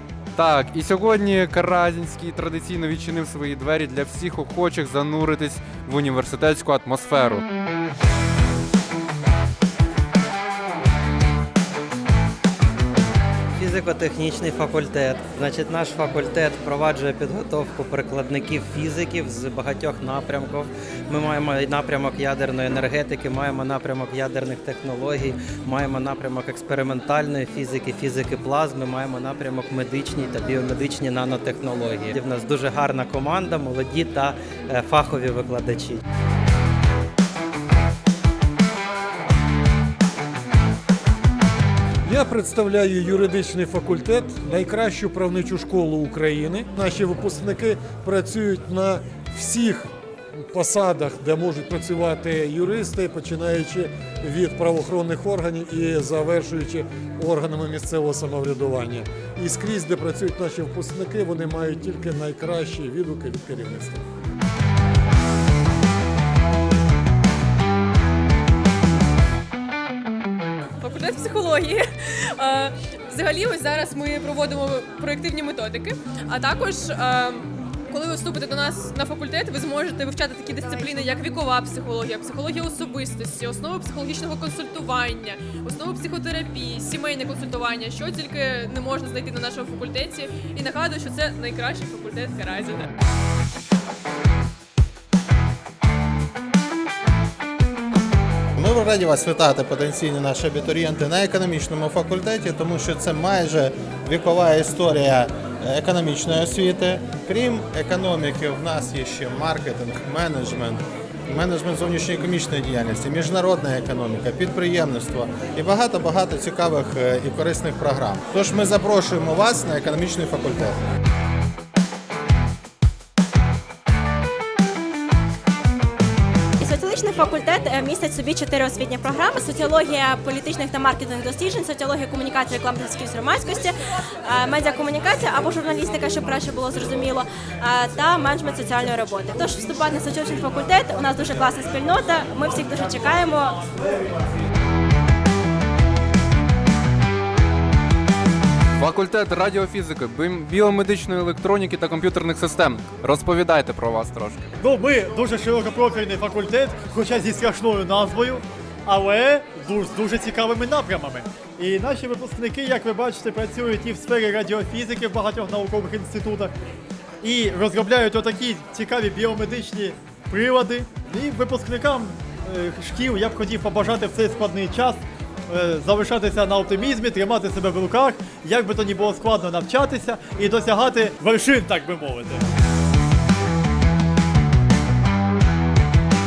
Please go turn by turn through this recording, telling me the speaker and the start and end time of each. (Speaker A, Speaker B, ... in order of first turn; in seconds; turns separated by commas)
Speaker A: 0.4-7.4, Speaker B: 13.6-36.0, Speaker C: 42.0-64.0, Speaker D: 70.8-92.9, Speaker E: 98.6-120.8, Speaker F: 126.6-133.7, Speaker F: 134.3-143.5, Speaker A: 148.8-154.5, Speaker G: 154.6-166.5, Speaker G: 167.2-182.4